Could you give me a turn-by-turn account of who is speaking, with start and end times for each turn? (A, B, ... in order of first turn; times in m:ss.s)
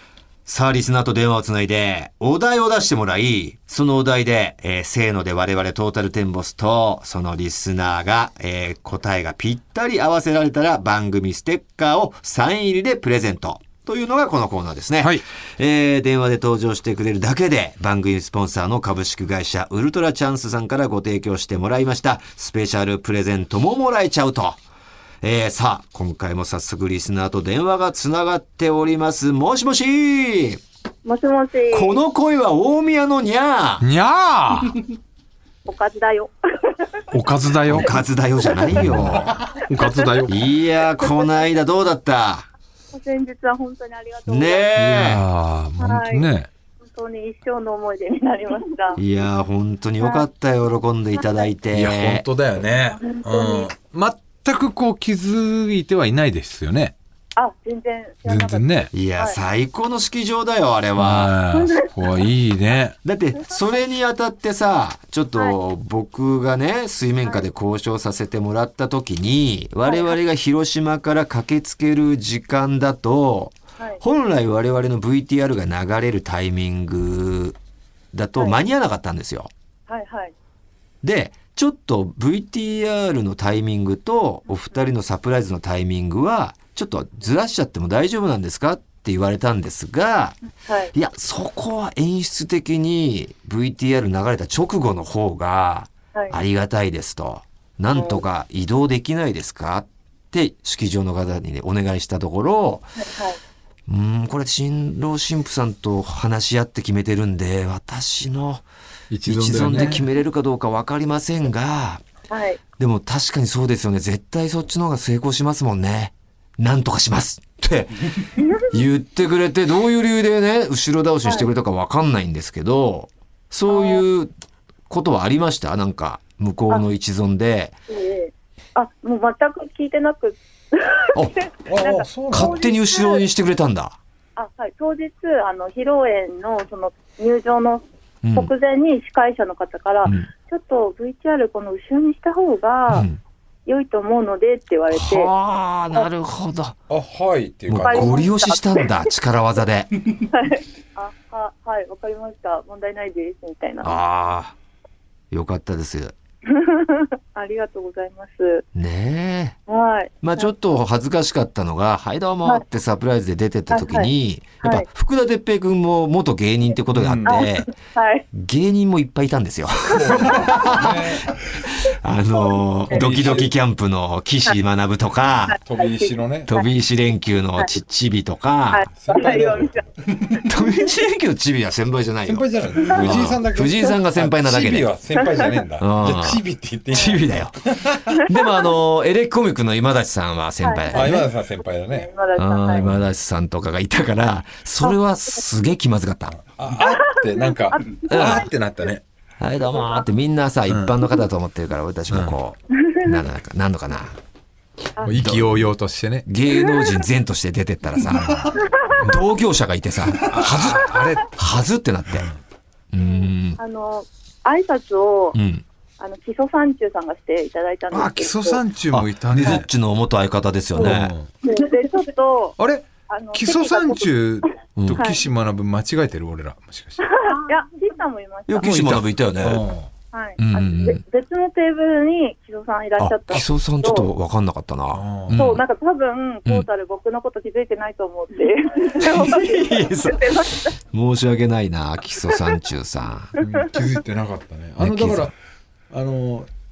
0:00.5-0:24.6 A
0:25.2-0:30.6 A
0:31.0-0:32.0 B
0:31.7-0:33.8 A
0:33.8-0:34.8 C
0:35.7-0:36.9 B
0:37.1-0:38.0 C
0:37.7-0:39.4 A
0:38.7-0:40.4 C
0:40.3-0:42.5 A
0:42.9-0:44.7 B
0:44.3-0:45.2 A
0:44.8-0:46.5 C
0:45.8-0:46.3 B
0:46.9-0:49.0 B
0:49.0-0:52.3 A
0:50.0-0:50.3 B
0:51.2-0:51.5 B
0:51.7-0:57.0 C
0:53.0-0:53.7 B
0:57.4-0:59.4 B
0:58.3-0:58.9 C
0:58.9-1:01.3 A
1:01.0-1:03.0 C
1:01.5-1:02.3 B
1:03.0-1:17.6 A
1:09.8-1:10.2 B
1:18.1-1:19.5 A
1:19.9-1:20.3 B
1:21.0-1:30.4 A
1:30.6-1:30.9 B
1:30.9-1:42.9 A
1:37.9-1:38.2 B
1:43.0-1:43.4 B
1:43.9-1:48.6 A
1:49.1-1:50.0 C
1:49.2-1:52.0 A
1:52.3-1:52.6 B
1:52.8-2:04.3 A
1:58.4-1:58.8 B
2:03.7-2:04.0 B
2:04.9-2:07.7 A
2:07.9-2:13.3 B
2:11.7-2:12.6 C
2:12.3-2:14.0 A
2:14.4-2:17.8 B
2:18.2-2:18.5 A
2:18.4-2:23.1 B
2:22.9-2:23.2 A
2:23.7-2:25.3 B
2:24.9-2:26.8 A
2:26.9-2:28.3 C
2:27.7-2:29.9 A
2:27.8-2:29.1 B
2:30.2-2:34.0 B
2:33.8-2:34.5 A
2:35.3-2:36.2 A
2:36.5-2:38.6 B
2:38.8-2:39.6 A
2:39.7-2:40.5 B
2:40.2-2:47.7 A
2:43.7-2:44.1 B
2:46.9-2:47.5 C
2:47.3-2:48.3 B
2:48.3-2:51.2 A
2:49.9-2:50.8 B
2:49.9-2:51.3 C
2:51.9-2:55.6 A
2:52.9-2:53.5 C
2:55.6-2:56.5 C
2:55.7-2:56.7 B
2:56.5-2:58.9 A
2:58.7-2:59.8 B
2:59.0-2:59.8 C
3:00.4-3:04.9 A
3:02.3-3:08.2 C
3:05.8-3:07.5 A
3:08.1-3:11.3 A
3:10.6-3:11.3 B
3:10.9-3:12.1 C
3:11.9-3:12.9 B
3:12.4-3:16.4 A
3:16.4-3:19.0 C
3:17.2-3:18.4 B
3:18.1-3:18.5 A
3:19.4-3:24.2 A
3:22.1-3:22.4 C
3:25.0-3:25.2 B
3:25.0-3:26.3 C
3:25.2-3:25.7 A
3:26.3-3:32.3 A
3:28.1-3:28.6 C
3:30.3-3:31.4 C
3:32.1-3:32.4 C
3:32.9-3:33.6 A
3:33.0-3:35.4 B
3:35.3-3:35.6 A
3:36.0-3:38.6 B
3:37.9-3:39.7 C
3:38.9-3:41.1 A
3:40.8-3:41.3 C
3:40.8-3:42.6 B
3:42.6-3:47.1 C
3:43.1-3:44.4 B
3:44.8-3:45.0 A
3:47.2-3:48.7 B
3:48.5-3:49.7 A
3:48.6-3:49.9 C
3:50.1-3:54.1 B
3:50.4-3:51.0 A
3:53.0-3:55.6 A
3:54.9-3:55.4 C
3:55.4-4:00.8 B
3:59.0-4:03.4 A
4:03.4-4:05.3 C
4:04.8-4:05.3 A
4:05.9-4:06.5 C